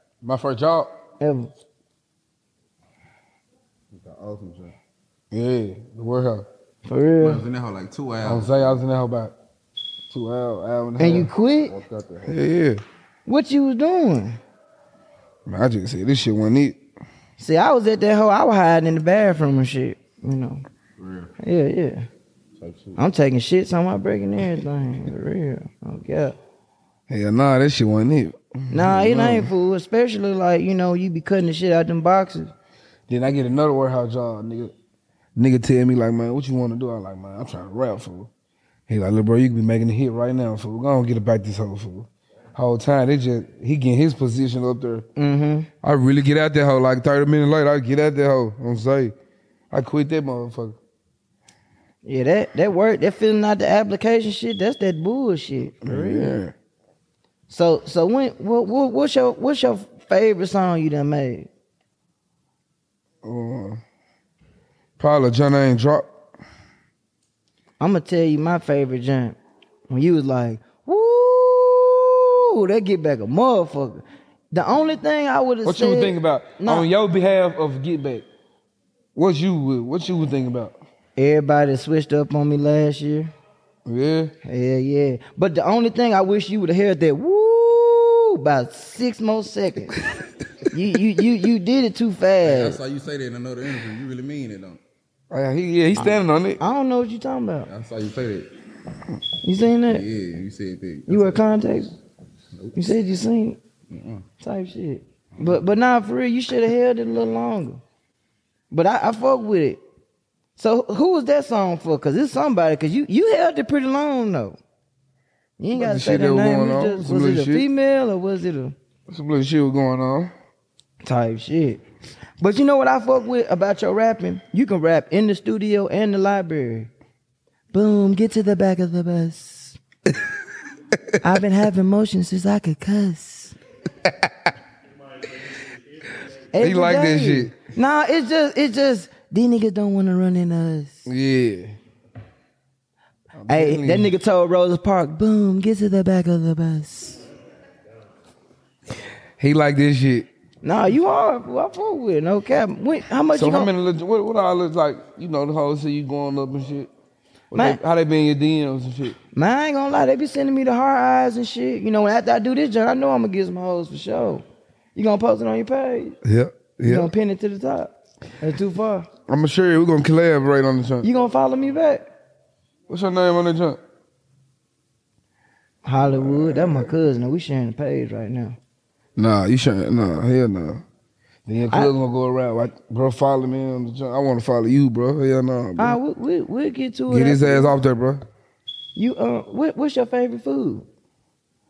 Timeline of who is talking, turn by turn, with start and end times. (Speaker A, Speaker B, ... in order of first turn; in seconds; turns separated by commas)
Speaker A: 0.2-0.9, Speaker B: 1.2-1.5, Speaker C: 3.9-4.7, Speaker A: 5.3-6.4, Speaker B: 6.8-7.4, Speaker C: 7.2-8.8, Speaker A: 8.2-9.3, Speaker A: 10.1-11.3, Speaker B: 11.0-11.8, Speaker C: 11.7-12.4, Speaker A: 12.2-12.8, Speaker B: 13.2-14.4, Speaker A: 15.5-16.8, Speaker B: 17.4-20.6, Speaker C: 21.0-21.3, Speaker B: 21.4-22.1, Speaker C: 22.6-23.0, Speaker B: 23.0-26.4, Speaker A: 27.1-29.5, Speaker B: 28.7-32.5, Speaker A: 33.1-34.7, Speaker A: 35.4-38.3, Speaker A: 38.9-45.0, Speaker B: 45.1-45.7, Speaker A: 45.8-49.1, Speaker A: 49.7-50.8, Speaker B: 52.0-56.3, Speaker A: 55.8-56.5, Speaker B: 57.5-61.5, Speaker A: 63.2-63.8, Speaker A: 65.0-66.1, Speaker B: 67.8-69.4, Speaker B: 69.9-76.9, Speaker A: 75.6-78.2, Speaker A: 79.1-80.8, Speaker B: 81.2-83.3, Speaker A: 83.8-84.3, Speaker B: 84.4-90.0, Speaker B: 90.7-92.8, Speaker C: 92.4-94.8, Speaker A: 95.3-96.6, Speaker B: 96.0-97.7, Speaker C: 97.7-98.5, Speaker B: 99.4-100.0, Speaker C: 99.9-101.8, Speaker B: 101.1-101.9, Speaker C: 102.5-102.9, Speaker B: 102.7-103.6, Speaker C: 103.9-104.2, Speaker B: 104.4-107.8, Speaker B: 108.7-109.8, Speaker B: 110.5-114.6, Speaker B: 115.6-118.7, Speaker A: 115.7-117.7, Speaker A: 119.1-120.3, Speaker B: 121.0-121.8, Speaker B: 122.4-126.9, Speaker B: 127.7-129.8, Speaker B: 131.2-133.6, Speaker B: 136.5-141.1, Speaker A: 136.6-137.6, Speaker A: 141.1-141.8, Speaker A: 143.3-144.1, Speaker B: 143.5-147.2, Speaker A: 149.4-150.3, Speaker B: 150.6-153.7, Speaker A: 153.3-156.9, Speaker A: 157.5-159.2, Speaker B: 157.5-157.8, Speaker B: 159.3-166.2, Speaker A: 166.2-167.1, Speaker B: 166.8-169.1, Speaker A: 169.3-171.1, Speaker B: 171.0-172.1, Speaker A: 172.9-173.8, Speaker B: 175.8-178.6, Speaker A: 176.0-176.9, Speaker A: 179.2-180.8, Speaker A: 181.5-186.0, Speaker B: 185.8-187.8, Speaker A: 187.1-188.2, Speaker B: 188.9-190.8